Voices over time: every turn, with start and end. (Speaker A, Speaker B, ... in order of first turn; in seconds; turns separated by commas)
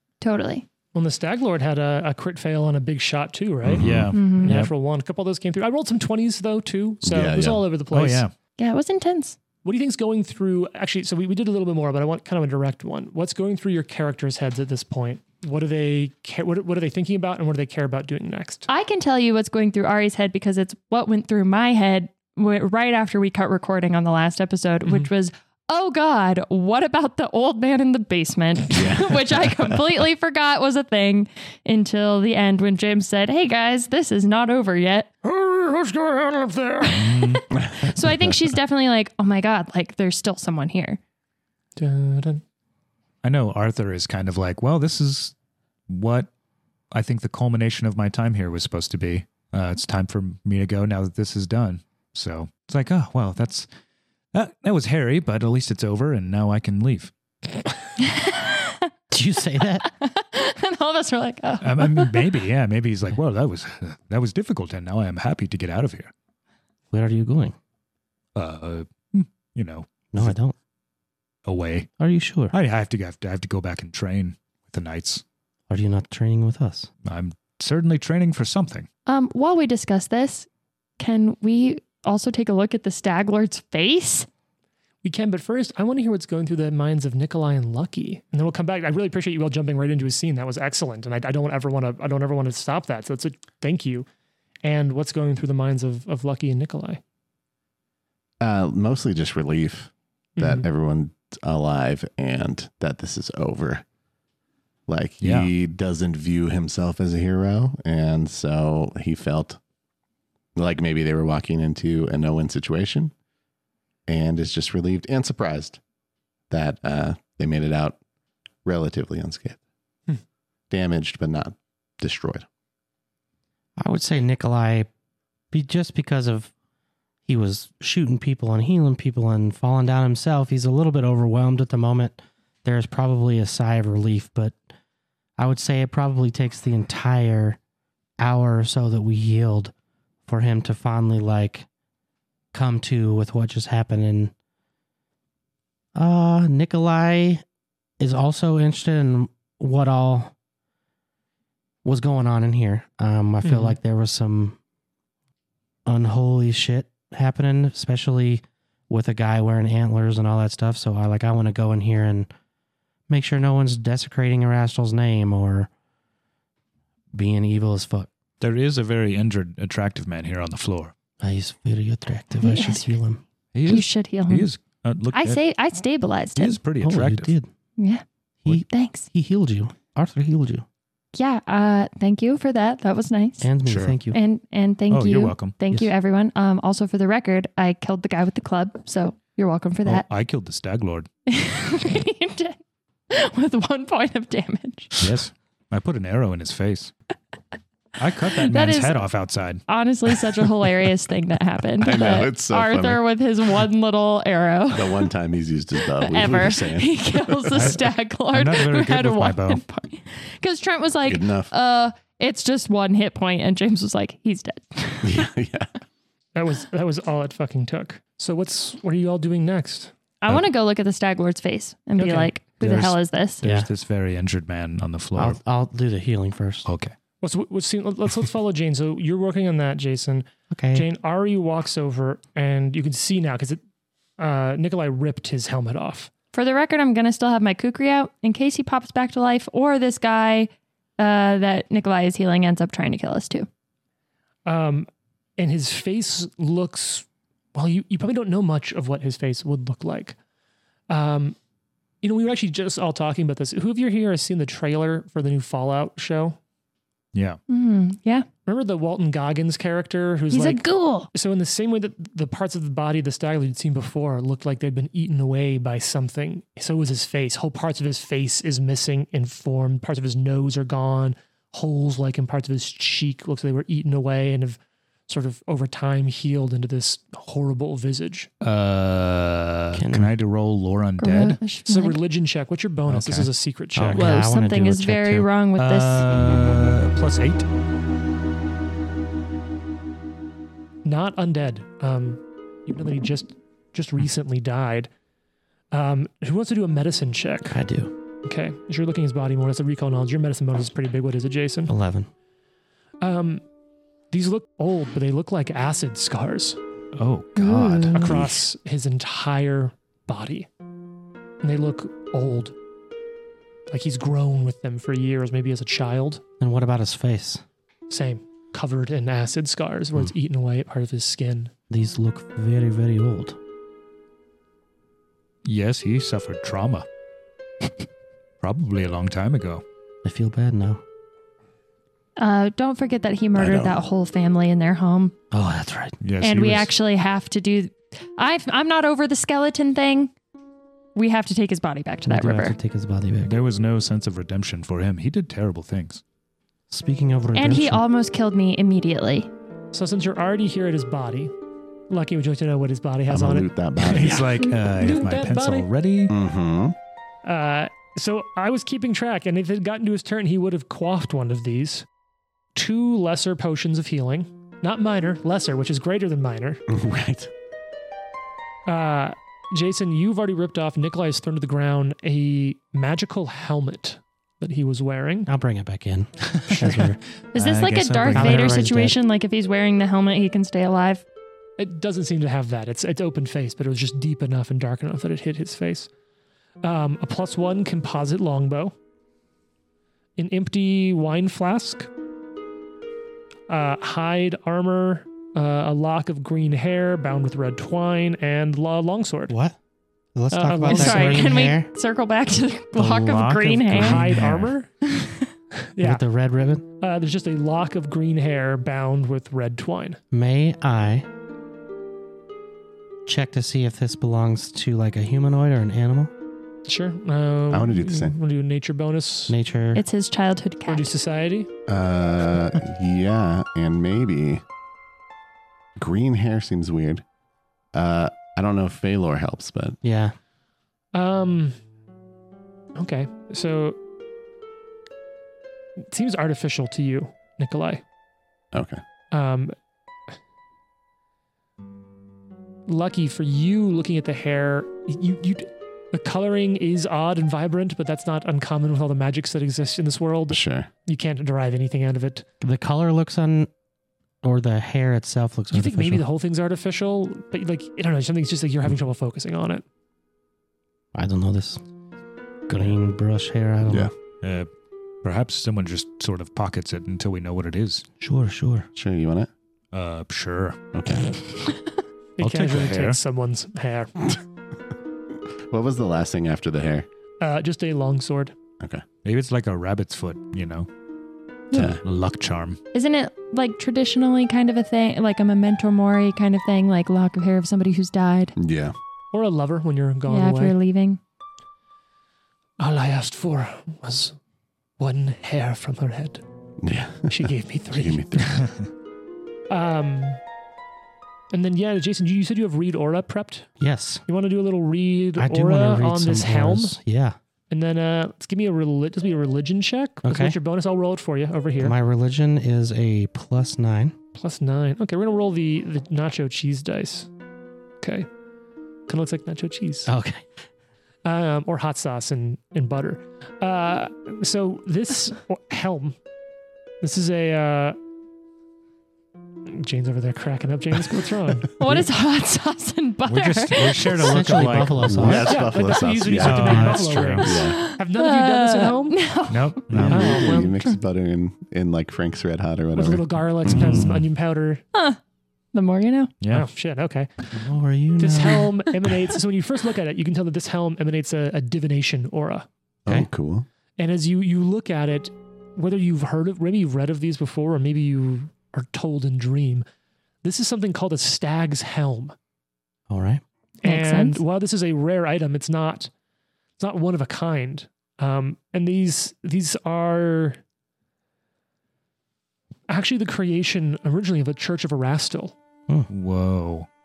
Speaker A: 0.2-0.7, Speaker B: 0.9-8.3, Speaker C: 3.6-4.1, Speaker D: 3.8-4.7, Speaker A: 4.1-4.5, Speaker C: 7.0-7.7, Speaker D: 7.9-8.3, Speaker A: 8.6-9.4, Speaker B: 9.6-18.7, Speaker A: 18.7-35.1, Speaker B: 24.9-25.1, Speaker C: 28.7-29.8, Speaker B: 35.2-37.1, Speaker A: 36.8-41.0, Speaker D: 36.9-37.4, Speaker B: 41.8-42.4, Speaker D: 43.2-45.4, Speaker D: 45.9-46.3, Speaker D: 46.9-53.7, Speaker D: 54.3-57.1, Speaker A: 58.0-58.9, Speaker E: 59.1-59.9, Speaker A: 59.8-62.3, Speaker D: 61.6-66.1, Speaker E: 66.9-67.6, Speaker D: 68.3-70.3, Speaker E: 70.1-70.5, Speaker D: 71.5-71.9, Speaker E: 72.0-72.5, Speaker D: 72.5-75.2, Speaker E: 75.7-76.9, Speaker D: 77.0-78.9, Speaker A: 79.1-80.5, Speaker A: 81.0-84.3, Speaker B: 85.0-94.1, Speaker B: 94.6-97.0, Speaker C: 98.4-103.8, Speaker B: 100.4-100.7, Speaker C: 104.9-109.6, Speaker D: 105.2-105.5, Speaker C: 110.6-113.1, Speaker C: 114.1-115.8, Speaker C: 116.5-118.0, Speaker C: 118.7-119.6, Speaker C: 120.7-122.5, Speaker E: 123.8-124.9, Speaker E: 125.5-126.5, Speaker E: 127.3-134.6, Speaker E: 135.4-137.6, Speaker E: 138.2-139.7, Speaker E: 140.3-141.7, Speaker E: 142.5-144.3, Speaker E: 145.9-147.4, Speaker E: 148.0-150.3, Speaker E: 151.8-154.6, Speaker B: 153.4-153.8, Speaker E: 155.9-162.3, Speaker E: 163.1-165.7, Speaker E: 167.1-168.1, Speaker D: 168.4-170.9, Speaker E: 171.2-173.2, Speaker A: 172.4-172.9, Speaker D: 173.6-175.4, Speaker A: 173.7-174.5, Speaker A: 175.1-176.6, Speaker D: 176.4-177.3, Speaker E: 176.8-177.5, Speaker A: 177.8-179.1, Speaker E: 178.4-180.7, Speaker A: 181.2-183.5, Speaker E: 183.4-184.2, Speaker D: 183.7-184.0, Speaker A: 184.1-190.1, Speaker D: 184.9-185.6, Speaker D: 189.9-191.1, Speaker A: 191.3-192.6, Speaker A: 193.1-194.9, Speaker D: 195.0-196.9, Speaker D: 198.0-199.7, Speaker A: 198.2-199.0, Speaker A: 199.7-205.1, Speaker C: 201.8-203.0, Speaker C: 204.7-207.7, Speaker A: 205.9-215.3, Speaker D: 207.5-209.6, Speaker C: 211.1-211.5, Speaker C: 215.0-215.7, Speaker B: 216.3-219.9, Speaker A: 220.2-223.4, Speaker B: 222.0-222.3, Speaker E: 223.4-223.7, Speaker D: 223.4-225.4, Speaker E: 225.2-226.7, Speaker D: 226.7-226.9, Speaker B: 227.2-233.6, Speaker E: 230.5-230.9, Speaker B: 234.2-236.1, Speaker A: 236.3-243.5, Speaker B: 244.5-250.2, Speaker B: 250.9-251.4, Speaker B: 252.0-256.4, Speaker D: 257.1-257.4, Speaker A: 257.5-258.3, Speaker B: 258.5-278.3, Speaker A: 260.3-261.1, Speaker D: 278.4-281.4, Speaker E: 279.7-280.1, Speaker A: 281.0-282.0, Speaker B: 281.7-284.1, Speaker D: 282.9-283.3, Speaker E: 283.8-285.3, Speaker A: 283.9-286.1, Speaker D: 285.6-287.5, Speaker B: 290.9-294.9, Speaker B: 295.7-297.6, Speaker E: 297.5-297.9, Speaker B: 298.2-301.7, Speaker E: 301.7-302.1, Speaker B: 303.0-303.4, Speaker B: 304.1-306.6, Speaker D: 307.0-308.0, Speaker A: 307.4-308.2, Speaker B: 307.9-310.5, Speaker C: 308.0-308.4, Speaker B: 311.4-312.5, Speaker B: 313.7-316.2, Speaker E: 316.4-317.4, Speaker B: 317.9-321.5, Speaker E: 321.7-323.4, Speaker D: 325.4-326.9, Speaker D: 328.4-329.6, Speaker E: 330.0-330.8, Speaker A: 332.2-335.1, Speaker C: 333.4-333.8, Speaker E: 335.3-336.0, Speaker D: 336.0-336.8, Speaker A: 336.2-340.1, Speaker A: 340.9-342.6, Speaker E: 342.1-343.3, Speaker D: 343.2-346.0, Speaker E: 346.7-347.8, Speaker A: 347.4-349.3, Speaker B: 349.7-351.3, Speaker B: 351.9-355.7, Speaker C: 353.1-354.3, Speaker D: 353.9-356.1, Speaker C: 356.1-356.8, Speaker B: 357.2-361.9, Speaker B: 362.6-366.6, Speaker C: 366.7-367.3, Speaker B: 368.7-375.3, Speaker E: 375.3-377.0, Speaker A: 377.3-381.1, Speaker D: 377.4-378.6, Speaker E: 378.0-379.0, Speaker B: 381.6-385.9, Speaker B: 386.6-388.8, Speaker B: 390.2-391.9, Speaker B: 393.5-399.3, Speaker E: 399.3-399.6, Speaker E: 400.1-401.7, Speaker B: 400.3-401.3, Speaker A: 400.6-404.1, Speaker D: 402.8-404.5, Speaker B: 403.8-404.7, Speaker A: 404.9-405.3, Speaker B: 405.6-406.0, Speaker E: 405.8-406.6, Speaker B: 406.8-410.0, Speaker E: 410.1-411.1, Speaker E: 413.1-416.1, Speaker B: 416.7-419.4, Speaker C: 417.5-418.2, Speaker E: 419.3-419.8, Speaker A: 419.8-420.9, Speaker B: 420.7-421.5, Speaker C: 421.7-424.4, Speaker C: 425.8-427.0, Speaker C: 427.7-429.8, Speaker E: 429.8-430.1, Speaker B: 430.9-431.6, Speaker B: 432.8-433.8, Speaker B: 435.9-437.8, Speaker C: 438.5-438.8, Speaker B: 439.1-439.6, Speaker B: 442.7-452.3, Speaker C: 450.3-450.7, Speaker E: 452.4-453.5, Speaker E: 454.2-456.0, Speaker B: 455.5-459.6, Speaker E: 460.9-461.6, Speaker E: 462.5-463.9, Speaker C: 463.7-463.9, Speaker D: 464.2-464.5, Speaker D: 465.0-467.9, Speaker E: 468.0-468.7, Speaker C: 468.8-469.3, Speaker D: 469.7-470.6, Speaker C: 470.7-471.1, Speaker B: 472.2-474.2, Speaker D: 472.2-473.0, Speaker C: 475.5-476.9, Speaker B: 477.2-478.4, Speaker D: 479.0-480.7, Speaker C: 481.5-481.8, Speaker D: 481.5-482.6, Speaker A: 482.7-488.4, Speaker C: 488.4-488.8, Speaker B: 489.1-490.6, Speaker A: 490.1-491.0, Speaker B: 492.6-494.2, Speaker B: 494.8-496.2, Speaker C: 496.6-498.4, Speaker B: 497.1-498.0, Speaker D: 498.4-498.6, Speaker B: 499.5-500.2, Speaker B: 501.3-503.5, Speaker E: 503.6-504.0, Speaker B: 504.1-506.8, Speaker E: 505.2-507.2, Speaker B: 507.5-511.8, Speaker E: 510.0-510.4, Speaker E: 511.6-514.0, Speaker B: 514.1-517.1, Speaker B: 517.8-518.1, Speaker B: 518.9-519.9, Speaker E: 519.9-520.2, Speaker B: 521.0-526.0, Speaker B: 526.8-527.8, Speaker B: 529.5-531.5, Speaker A: 531.6-534.5, Speaker D: 533.1-535.4, Speaker E: 533.9-535.4, Speaker C: 534.8-537.6, Speaker B: 535.1-539.0, Speaker D: 536.2-537.4, Speaker A: 537.4-539.7, Speaker D: 539.3-540.1, Speaker E: 539.7-540.1, Speaker C: 539.7-543.9, Speaker B: 539.9-540.5, Speaker B: 542.8-544.6, Speaker D: 543.5-544.1, Speaker A: 544.7-545.0, Speaker A: 545.5-546.1, Speaker D: 546.2-546.5, Speaker B: 546.3-547.1, Speaker E: 547.3-548.5, Speaker B: 548.0-552.5, Speaker C: 552.9-553.5, Speaker B: 553.8-559.6, Speaker B: 560.2-562.1, Speaker E: 562.9-563.2, Speaker B: 563.6-565.9, Speaker A: 563.6-564.2, Speaker B: 566.6-570.4, Speaker B: 572.7-575.4, Speaker D: 575.9-576.7